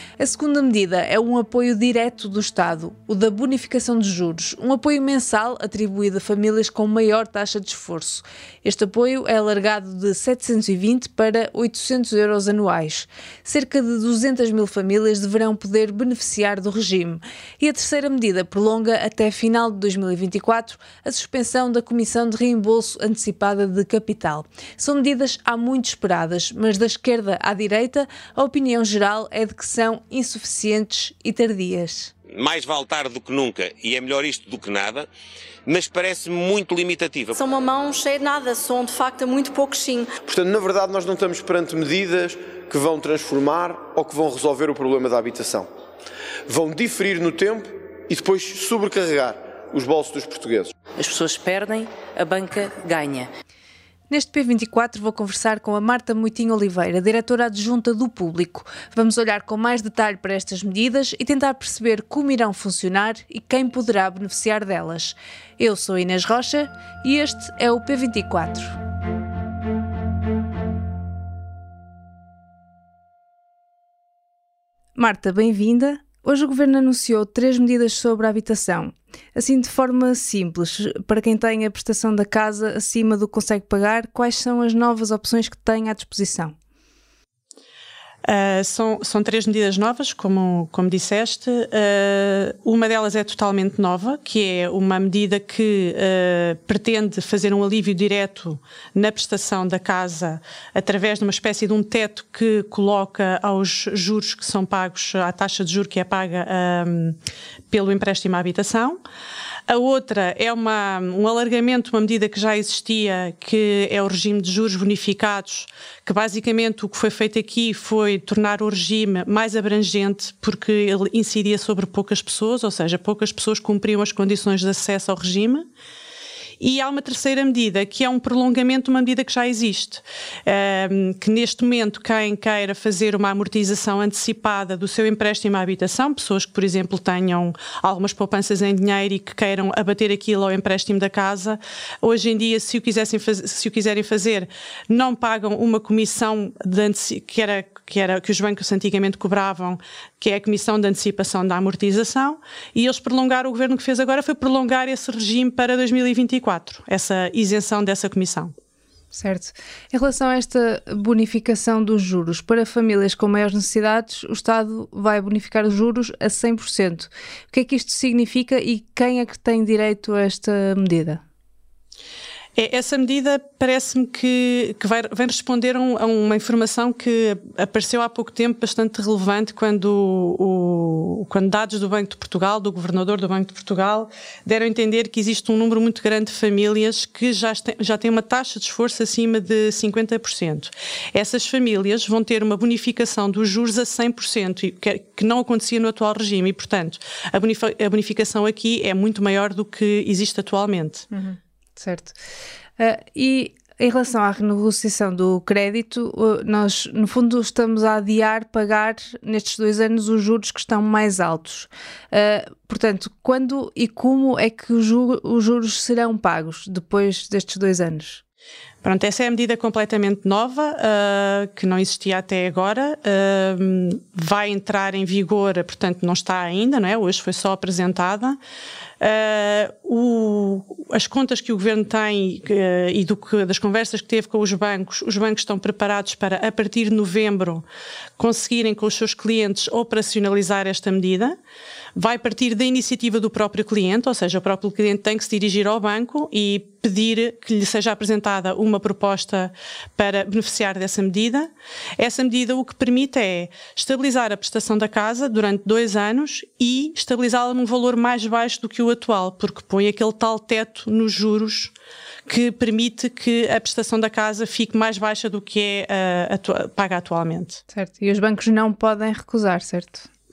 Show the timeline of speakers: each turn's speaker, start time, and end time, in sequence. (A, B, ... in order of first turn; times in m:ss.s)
0:00.2-0:32.1 A
0:32.3-0:35.1 B
0:35.6-0:37.4 B
0:37.4-0:40.1 C
0:40.2-0:45.7 D
0:46.5-0:50.7 D
0:51.0-0:53.3 E
0:54.1-1:08.8 A
1:15.0-1:26.6 A
1:28.2-1:47.2 F
1:47.7-1:49.0 F
1:49.7-2:05.7 F
2:06.6-2:38.5 F
2:39.1-2:51.2 A
2:52.6-3:21.0 F
3:21.1-3:22.2 A
3:22.8-3:38.2 A
3:38.8-3:48.4 F
3:49.0-3:57.6 F
3:58.2-4:01.4 F
4:02.0-4:21.7 F
4:22.3-4:27.6 F
4:27.7-4:30.1 A